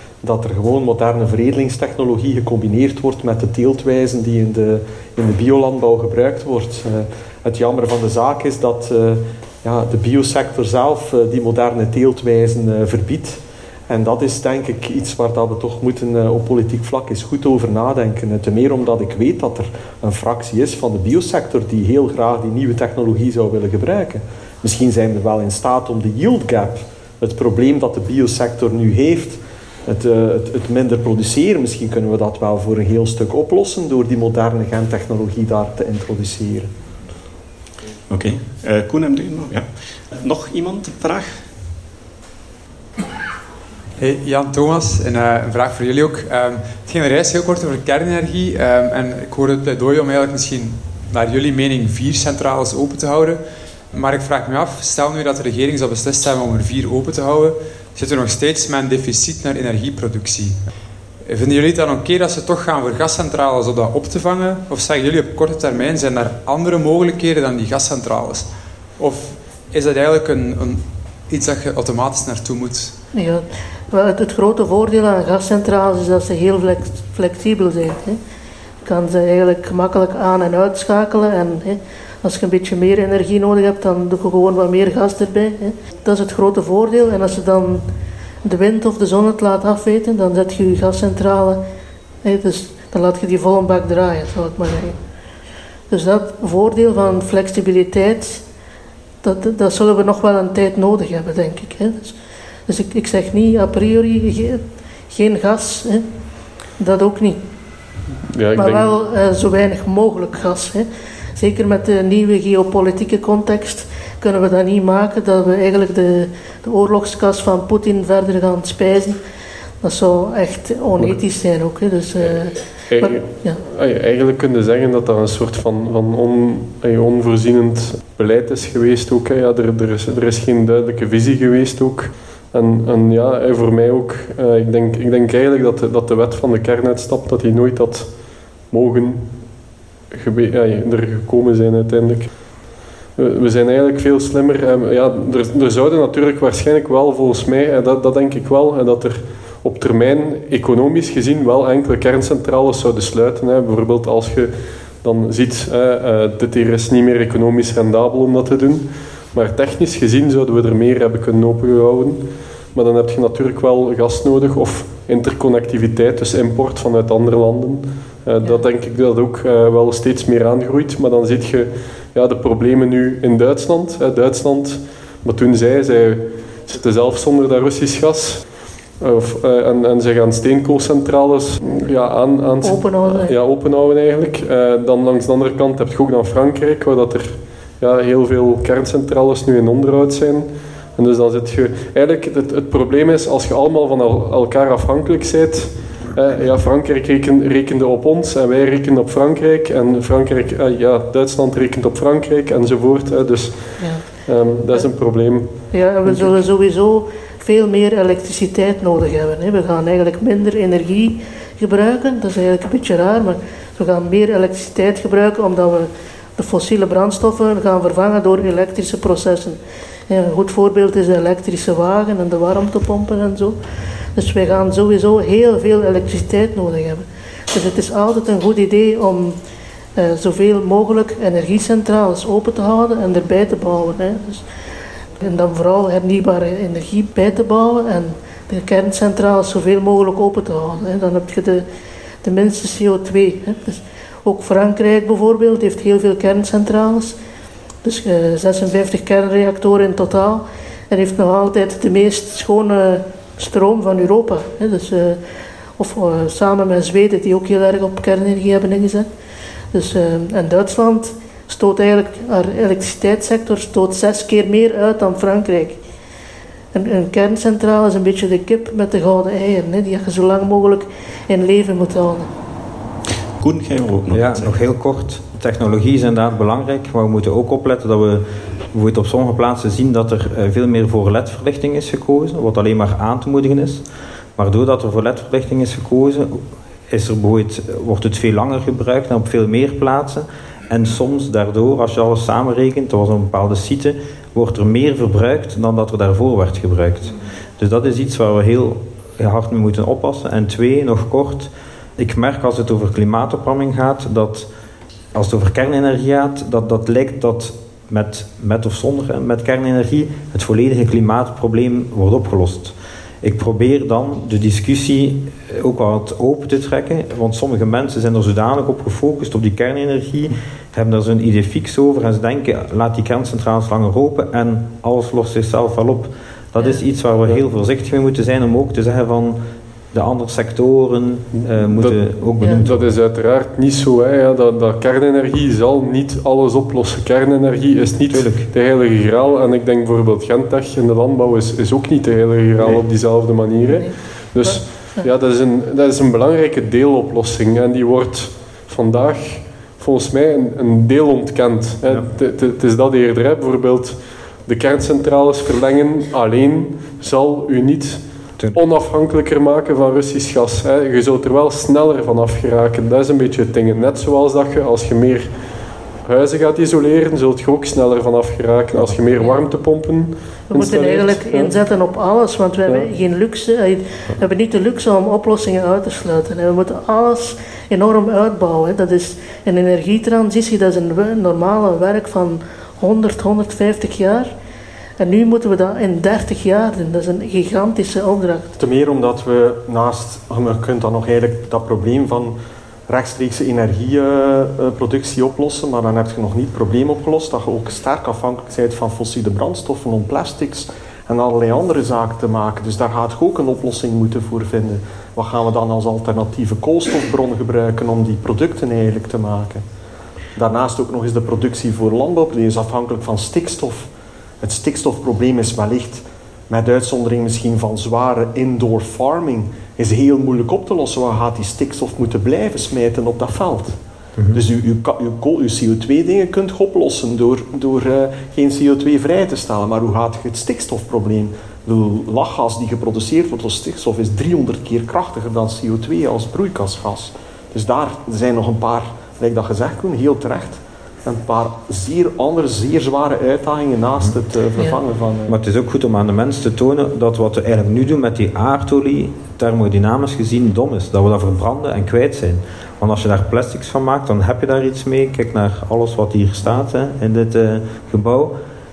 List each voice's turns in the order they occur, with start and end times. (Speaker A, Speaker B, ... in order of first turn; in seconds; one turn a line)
Speaker A: 0.2-36.7
Speaker B: 38.1-41.4
Speaker C: 44.0-60.6
Speaker C: 61.2-72.9
Speaker D: 73.1-78.2
Speaker D: 78.8-87.8
Speaker D: 88.4-91.6
Speaker D: 92.2-95.0
Speaker D: 95.9-98.4
Speaker D: 99.2-102.2
Speaker D: 102.7-106.0
Speaker D: 106.8-107.4
Speaker E: 108.3-108.8
Speaker D: 108.5-110.8
Speaker D: 111.4-119.2
Speaker D: 119.8-123.6
Speaker E: 122.9-138.1
Speaker E: 138.7-139.4
Speaker E: 140.1-142.3
Speaker E: 143.2-178.5
Speaker E: 179.0-206.4
Speaker D: 182.6-183.3
Speaker D: 203.8-204.9
Speaker D: 205.5-223.6
Speaker D: 224.2-229.4
Speaker D: 230.0-234.4
Speaker D: 235.2-241.6
Speaker D: 242.2-247.2
Speaker D: 247.8-255.2
Speaker D: 255.8-259.1
Speaker D: 259.7-265.8
Speaker D: 266.7-272.3
Speaker B: 273.4-274.6
Speaker F: 274.1-283.8
Speaker F: 284.4-304.5
Speaker F: 305.1-329.4
Speaker F: 329.9-332.8
Speaker E: 331.4-365.3
Speaker F: 338.1-338.5
Speaker F: 342.6-342.8
Speaker D: 343.7-345.1
Speaker E: 366.1-371.5
Speaker D: 370.5-384.3
Speaker D: 385.0-388.5
Speaker A: 388.6-392.4
Speaker A: 392.9-409.6
Speaker A: 410.4-413.9
Speaker A: 414.4-423.8
Speaker F: 424.2-424.4
Speaker A: 424.3-445.3
Speaker F: 445.3-458.4